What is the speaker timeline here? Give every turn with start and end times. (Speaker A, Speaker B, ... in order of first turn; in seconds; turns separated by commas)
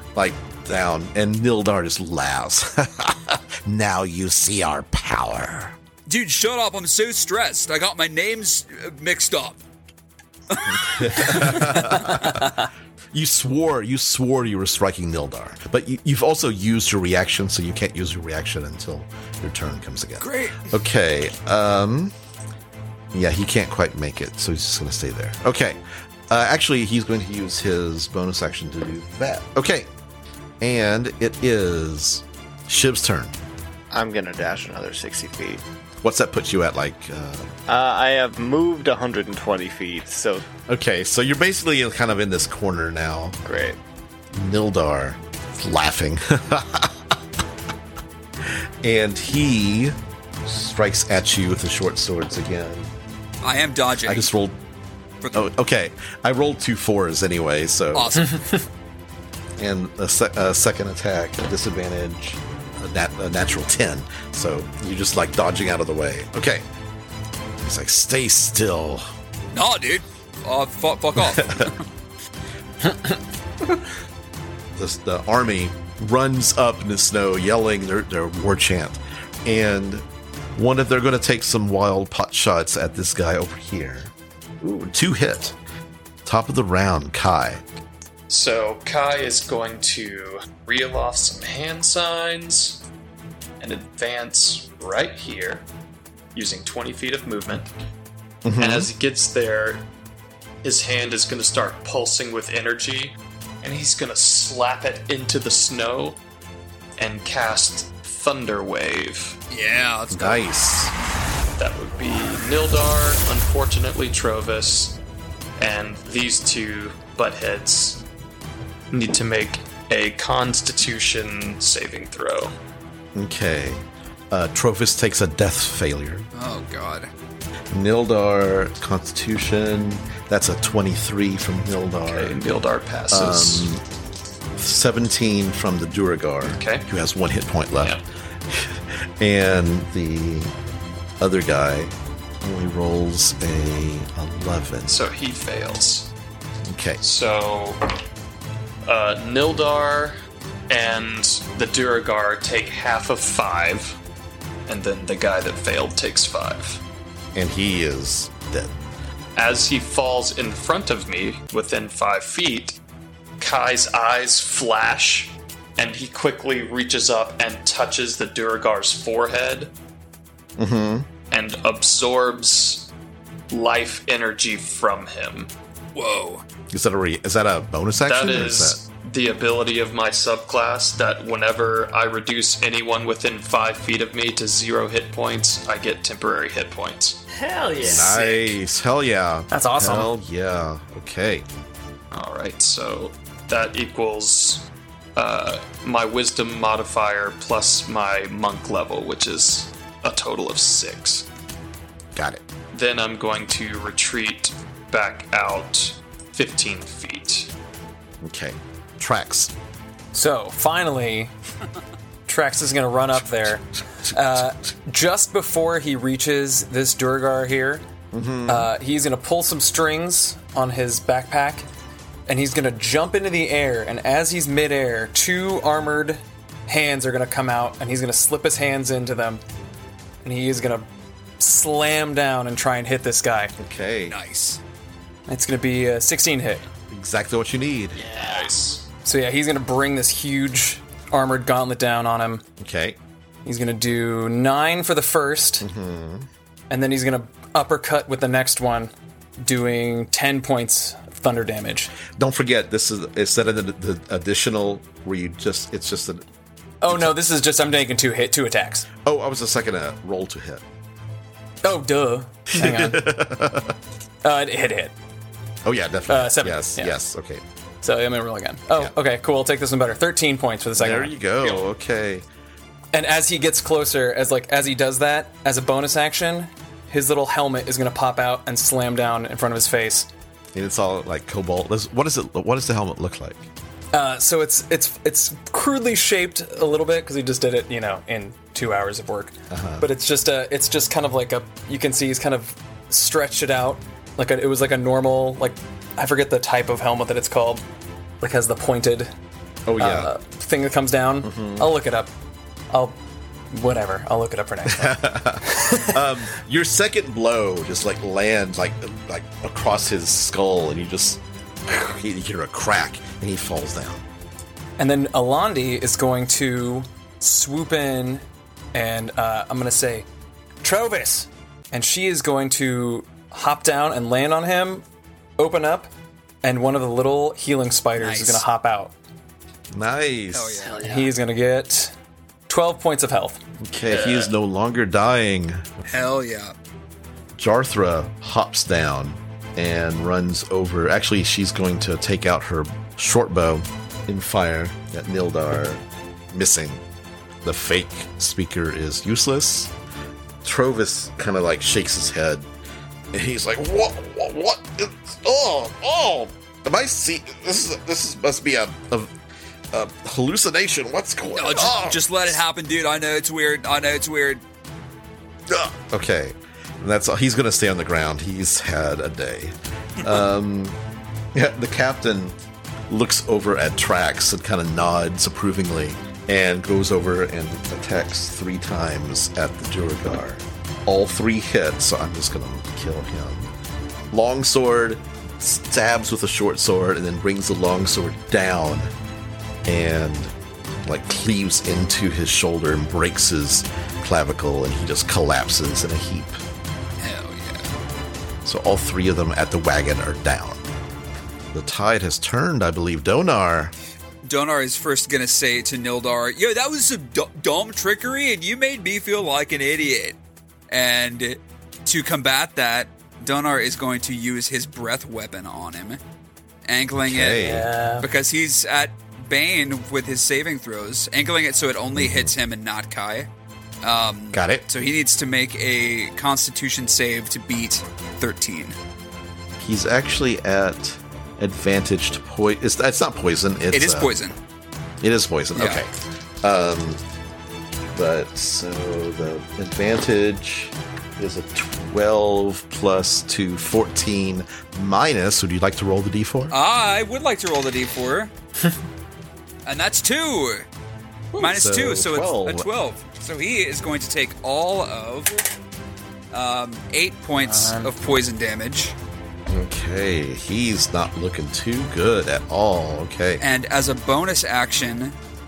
Speaker A: 0.1-5.8, Speaker B: 6.1-9.6, Speaker B: 10.5-12.4, Speaker A: 10.7-12.5, Speaker A: 13.1-22.1, Speaker B: 20.2-20.8, Speaker A: 23.1-29.9, Speaker A: 30.6-33.4, Speaker C: 33.9-35.6, Speaker A: 36.0-37.5, Speaker C: 37.7-40.4, Speaker A: 40.7-43.4, Speaker C: 43.4-43.8, Speaker A: 44.3-47.1, Speaker A: 48.8-52.9, Speaker B: 53.4-54.3, Speaker A: 54.0-54.6, Speaker B: 55.2-55.5, Speaker A: 55.3-58.2, Speaker B: 57.9-58.4, Speaker A: 59.6-66.6, Speaker A: 67.6-69.1, Speaker B: 69.5-71.8, Speaker A: 71.2-71.7, Speaker A: 74.7-85.6, Speaker A: 86.2-87.6, Speaker D: 88.3-92.8, Speaker D: 93.6-95.7, Speaker D: 96.3-97.7, Speaker A: 98.4-98.9, Speaker D: 98.6-99.8, Speaker D: 100.6-106.2, Speaker D: 107.0-109.4, Speaker B: 109.5-110.5, Speaker A: 110.1-110.9, Speaker D: 111.6-115.0, Speaker D: 115.6-118.0, Speaker D: 118.9-122.5, Speaker A: 123.1-126.3, Speaker B: 126.3-127.1, Speaker A: 127.7-132.4, Speaker D: 132.1-133.7, Speaker A: 133.1-133.8, Speaker A: 134.5-140.5, Speaker D: 136.4-136.9, Speaker A: 141.2-144.9, Speaker D: 144.8-146.1, Speaker A: 146.6-147.0, Speaker D: 147.0-147.8, Speaker D: 148.8-150.1, Speaker D: 150.7-154.0, Speaker D: 154.7-156.8, Speaker A: 157.3-158.8, Speaker D: 159.3-162.8, Speaker D: 163.4-169.7, Speaker A: 170.6-171.1, Speaker D: 171.3-172.9, Speaker D: 173.5-175.5, Speaker B: 175.9-176.4, Speaker A: 176.7-178.8, Speaker D: 178.0-187.2, Speaker E: 187.3-188.6, Speaker A: 187.8-191.4, Speaker D: 187.8-188.1, Speaker F: 189.5-190.1, Speaker D: 192.1-201.3, Speaker A: 202.1-202.4, Speaker D: 202.7-207.5, Speaker A: 208.2-209.5, Speaker F: 210.1-211.3, Speaker F: 212.3-217.8, Speaker A: 218.1-218.7, Speaker F: 218.5-221.7, Speaker F: 222.3-229.4, Speaker F: 230.2-230.9, Speaker F: 231.4-233.5, Speaker A: 233.6-234.2, Speaker B: 234.1-234.6, Speaker F: 235.3-236.6, Speaker A: 236.9-238.0, Speaker D: 237.9-238.8, Speaker E: 238.1-238.5, Speaker F: 239.0-242.4, Speaker A: 242.6-243.0, Speaker F: 243.4-245.7, Speaker A: 245.6-246.3, Speaker F: 246.7-251.9, Speaker A: 252.1-256.2, Speaker F: 256.8-258.9, Speaker A: 256.9-257.2, Speaker A: 259.1-260.6, Speaker F: 261.6-263.1, Speaker A: 262.5-263.8, Speaker F: 264.2-264.9, Speaker A: 265.6-267.4, Speaker F: 266.1-266.9, Speaker F: 267.8-271.2, Speaker A: 270.8-272.3, Speaker F: 272.9-280.1, Speaker A: 280.5-283.4, Speaker F: 283.9-297.6, Speaker A: 289.5-289.9, Speaker F: 298.2-299.1, Speaker A: 299.6-300.1, Speaker F: 299.8-302.1, Speaker A: 301.2-301.7, Speaker F: 302.7-302.9, Speaker F: 303.5-306.0, Speaker A: 304.6-314.0, Speaker F: 314.8-320.1, Speaker F: 320.6-324.9, Speaker F: 325.4-325.9, Speaker F: 326.4-328.9, Speaker B: 328.0-328.4, Speaker A: 329.7-330.7, Speaker B: 330.3-330.8, Speaker E: 330.6-331.1, Speaker F: 330.8-331.9, Speaker F: 332.5-333.4, Speaker A: 333.6-335.7, Speaker D: 333.9-334.3, Speaker B: 335.9-336.5, Speaker A: 337.4-346.8, Speaker A: 347.4-349.7, Speaker A: 350.4-352.5, Speaker A: 353.1-359.1, Speaker A: 359.7-362.4, Speaker B: 361.3-364.4, Speaker A: 365.5-370.8, Speaker A: 371.3-372.4, Speaker A: 372.9-383.5, Speaker A: 384.1-388.9, Speaker A: 389.6-390.3, Speaker A: 390.9-396.4, Speaker B: 397.0-397.7, Speaker A: 398.4-400.6, Speaker A: 401.5-403.7, Speaker B: 404.2-410.2, Speaker B: 410.7-416.0, Speaker B: 416.6-417.5, Speaker A: 416.9-417.7, Speaker F: 417.4-418.1, Speaker B: 418.0-423.3, Speaker A: 421.9-422.3, Speaker B: 423.8-428.8, Speaker A: 424.3-424.6, Speaker A: 429.6-434.1, Speaker B: 433.7-434.4, Speaker A: 435.0-435.9, Speaker B: 435.6-435.8, Speaker A: 436.4-437.0, Speaker A: 437.9-446.6, Speaker B: 446.5-448.3, Speaker B: 449.6-450.6, Speaker A: 451.4-452.7, Speaker B: 451.4-455.4, Speaker B: 456.3-458.9, Speaker F: 457.4-457.9, Speaker A: 459.5-463.4, Speaker B: 463.4-465.1